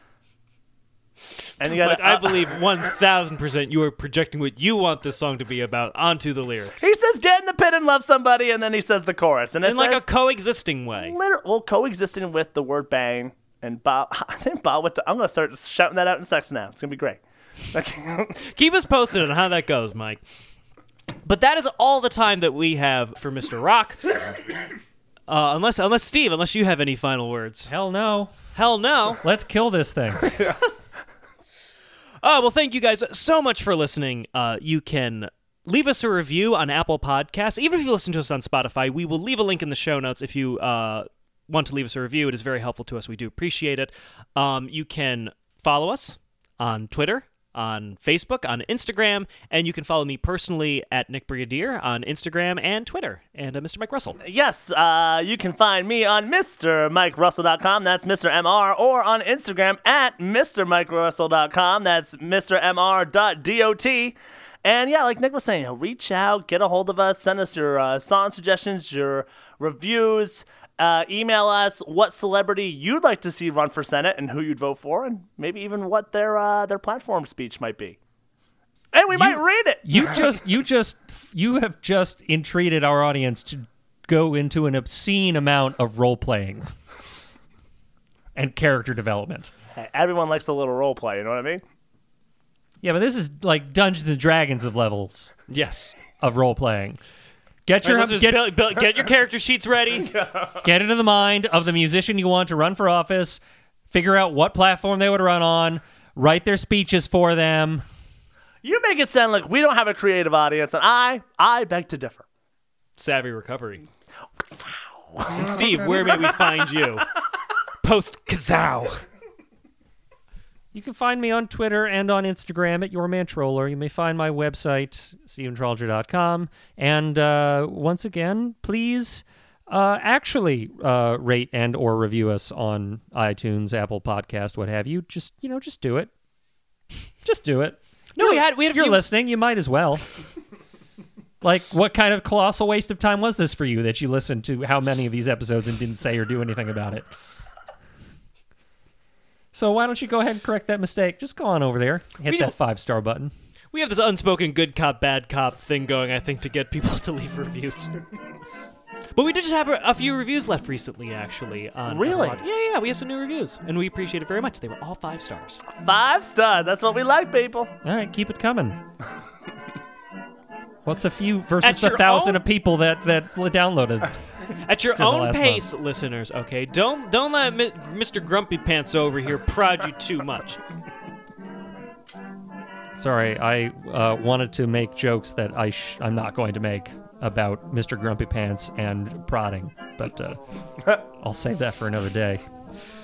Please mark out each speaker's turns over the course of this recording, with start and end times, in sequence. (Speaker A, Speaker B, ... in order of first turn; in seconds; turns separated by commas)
Speaker A: 1.6-2.5, Speaker B: 1.6-6.9, Speaker A: 6.8-10.0, Speaker B: 9.6-11.2, Speaker A: 11.0-18.4, Speaker B: 18.4-20.2, Speaker B: 21.2-24.0, Speaker B: 25.3-27.7, Speaker C: 27.7-28.4, Speaker B: 28.5-29.2, Speaker C: 29.2-30.5, Speaker B: 32.2-54.2, Speaker A: 54.2-78.0, Speaker A: 78.9-80.2, Speaker C: 79.1-86.7, Speaker C: 88.3-89.5, Speaker A: 89.7-91.6, Speaker C: 92.8-95.3, Speaker B: 95.5-95.9, Speaker C: 96.2-97.0, Speaker C: 97.7-98.5, Speaker B: 97.8-100.2, Speaker A: 100.2-100.5, Speaker C: 100.6-103.4, Speaker C: 103.9-107.8, Speaker A: 108.6-112.3, Speaker B: 113.0-113.8, Speaker A: 114.5-115.4, Speaker B: 115.3-117.1, Speaker B: 117.8-119.0, Speaker C: 120.7-136.1, Speaker C: 137.2-140.1, Speaker B: 138.2-139.0, Speaker C: 141.4-147.1, Speaker C: 149.5-153.3, Speaker B: 152.3-152.5, Speaker B: 153.7-157.9, Speaker B: 159.2-165.6, Speaker A: 161.9-162.5, Speaker A: 165.7-167.7, Speaker C: 167.8-168.8, Speaker C: 170.8-174.2, Speaker B: 171.6-172.4, Speaker B: 174.7-180.6, Speaker C: 174.9-175.6, Speaker C: 183.0-190.4, Speaker C: 191.0-192.4